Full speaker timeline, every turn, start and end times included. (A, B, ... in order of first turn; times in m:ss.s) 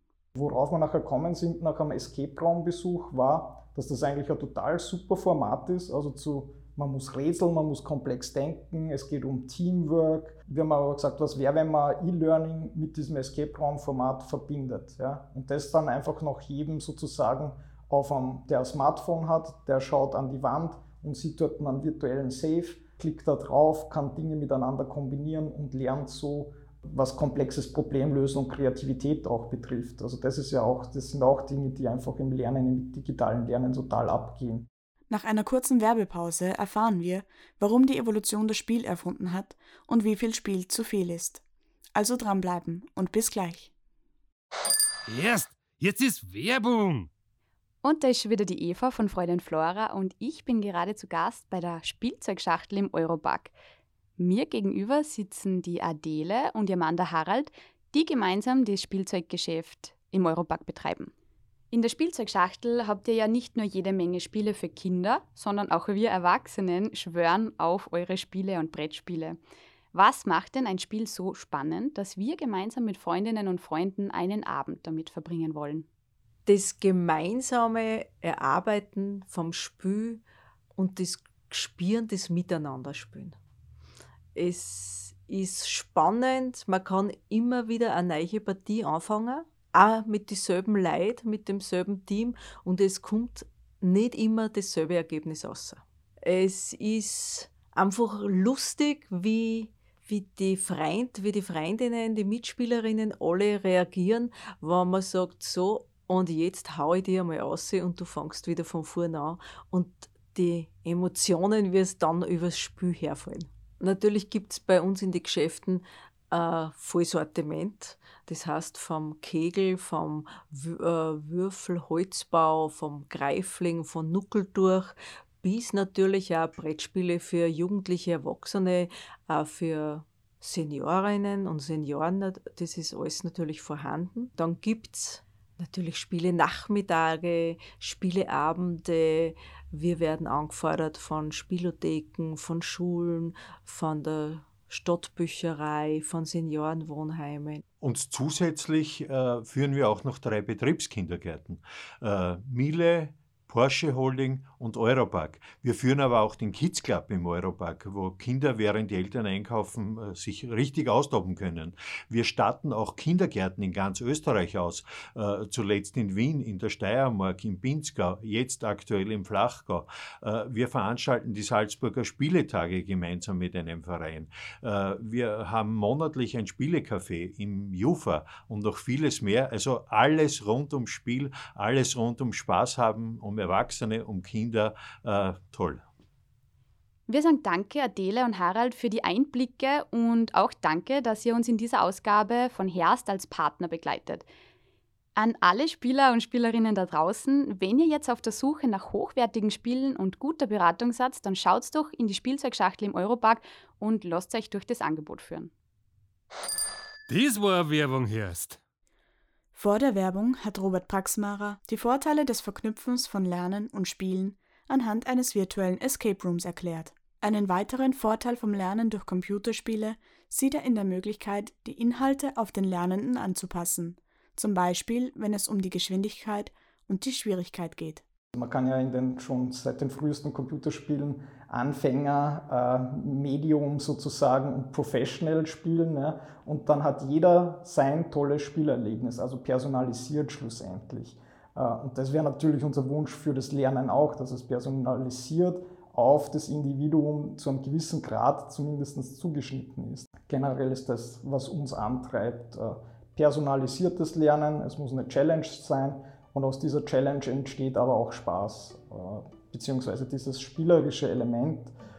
0:00.4-0:34.7 A
0:35.1-0:41.4 B
0:42.0-0:43.7 B
0:45.1-0:47.1 C
0:47.8-0:53.5 D
0:54.2-1:01.1 D
1:01.7-1:09.4 D
1:09.9-1:15.9 D
1:16.5-1:20.2 E
1:20.8-1:23.4 E
1:24.4-2:27.6 E
2:27.8-3:05.8 F
3:07.1-3:14.3 D
3:15.2-3:25.5 D
3:27.1-3:28.6 C
3:29.6-3:48.0 B
3:48.3-4:21.7 A